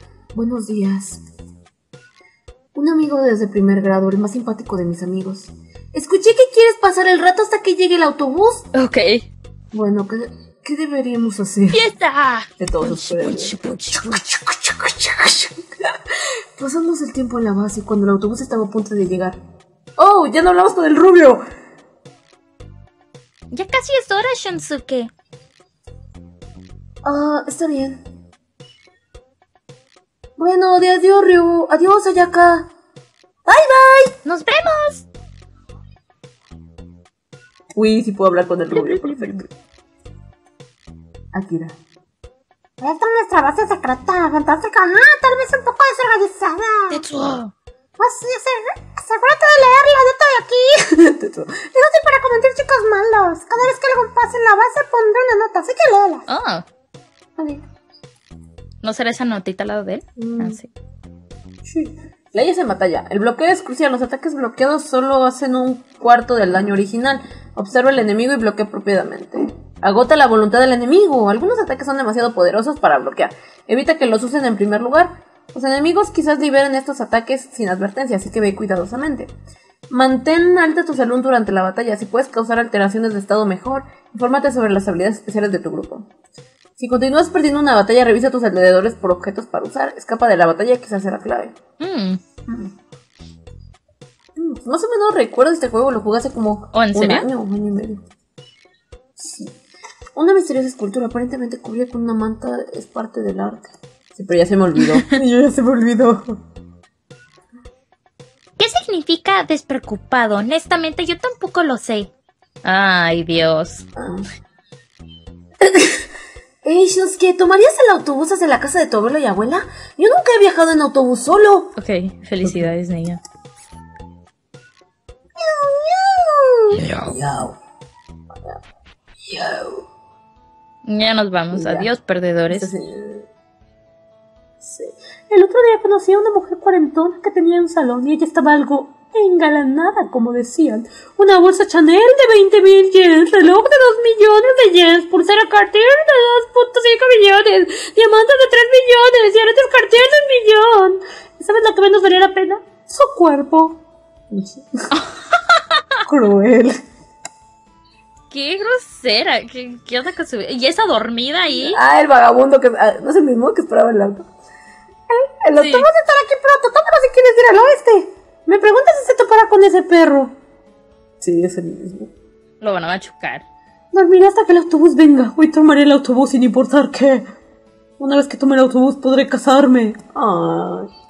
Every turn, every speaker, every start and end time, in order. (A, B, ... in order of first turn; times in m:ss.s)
0:00.3-0:01.2 A
0:02.8-0:08.7 A
0:08.8-0:09.2 B
0:09.7-0:11.8 A
0:11.7-0:14.2 B
0:12.6-0:19.4 A
0:20.0-0:21.4 A
0:23.5-0:25.1 B
0:27.0-0:28.0 A
0:30.4-0:32.7 A
0:33.5-0:34.2 A
0:34.2-0:35.0 B
0:37.8-0:39.5 A
0:38.7-0:39.4 B
0:41.3-0:41.8 A
0:42.8-0:47.0 C
0:46.9-0:47.5 B
0:48.0-0:50.9 C
0:51.0-0:51.7 A
0:51.8-0:56.3 C
0:56.3-0:56.6 B
0:58.8-1:00.7 B
1:00.2-1:00.6 A
1:01.6-1:19.3 A
1:19.9-1:26.1 A
1:26.8-1:31.6 A
1:31.8-1:32.2 B
1:32.5-1:32.7 A
1:34.4-1:38.0 A
1:36.7-1:37.3 B
1:39.2-1:39.6 A
1:40.2-1:46.4 A
1:48.6-1:52.1 B
1:52.6-1:53.8 B
1:54.0-1:54.3 A
1:55.6-1:56.0 A
1:56.6-2:01.7 A
2:01.8-2:03.2 B
2:02.4-2:02.7 A
2:05.4-2:07.6 A
2:06.7-2:07.1 B
2:09.2-2:09.8 A
2:10.8-2:12.7 B
2:11.5-2:11.9 A
2:12.5-2:13.3 A
2:14.6-2:34.9 A
2:35.0-2:36.0 B
2:36.0-2:36.8 A
2:38.3-2:41.8 B
2:41.6-2:44.3 A
2:45.1-2:50.3 A
2:45.6-2:45.9 B
2:51.2-2:52.1 A
2:52.6-2:53.4 B
2:53.9-2:57.3 A
2:58.0-3:00.9 A